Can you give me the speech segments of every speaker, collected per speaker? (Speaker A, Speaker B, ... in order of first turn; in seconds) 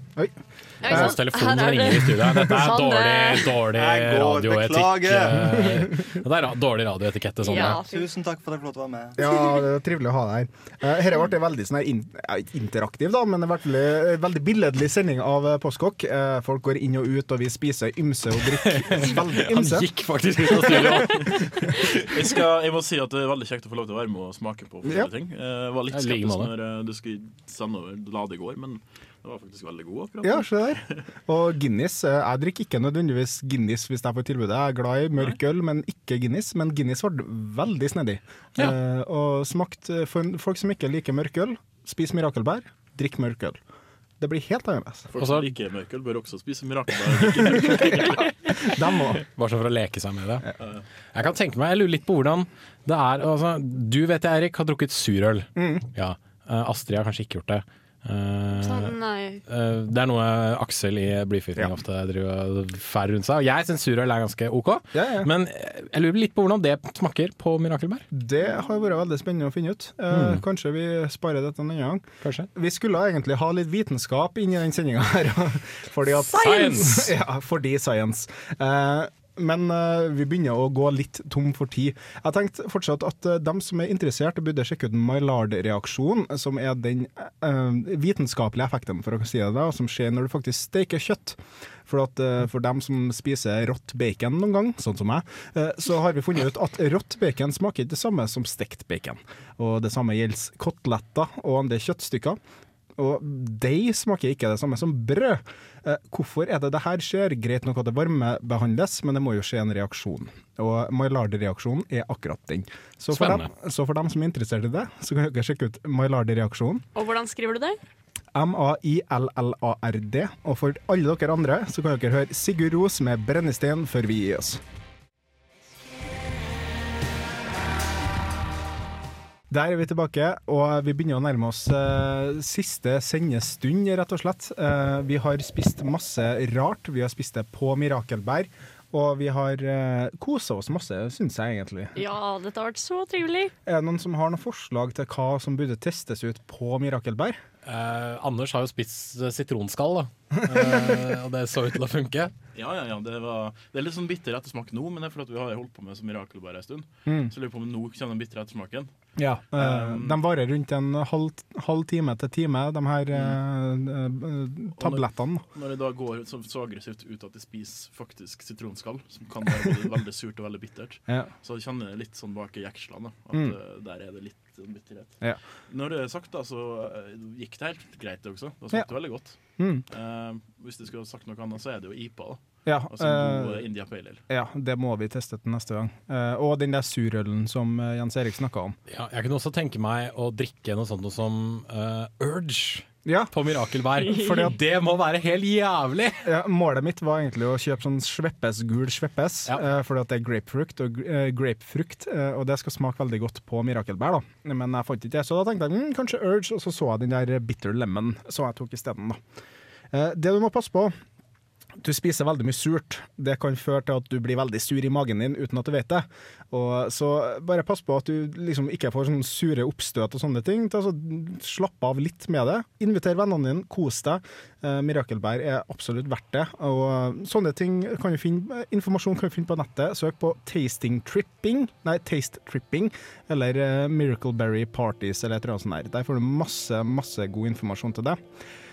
Speaker A: 0.1-1.2, 9.2-19.9, 30.2-43.6, 44.2-45.1, 47.4-49.2, 55.5-55.9, 64.9-65.3, 68.1-102.4, 103.0-116.8, 118.3-124.6, 129.5-142.0, 143.7-147.4, 157.1-157.3, 159.2-165.4, 179.6-179.9, 182.7-183.6, 184.3-188.8, 193.0-193.3, 196.2-209.2, 209.9-210.9, 211.8-238.2
Speaker B: 0.8-3.6, 7.4-8.1, 58.6-59.4, 116.9-117.8, 141.9-143.5
Speaker C: 0.8-7.8, 18.6-21.4, 25.9-26.5, 45.1-45.5, 49.2-50.5, 51.1-58.9, 59.5-68.0, 70.1-70.4, 72.2-72.5, 76.3-77.1, 113.1-113.5, 147.6-152.3, 188.9-196.2
Speaker D: 3.6-5.6, 7.7-9.3
Speaker E: 20.7-31.0, 45.1-48.3, 152.5-158.9, 159.5-160.2, 164.8-175.2, 175.7-179.4, 179.9-184.2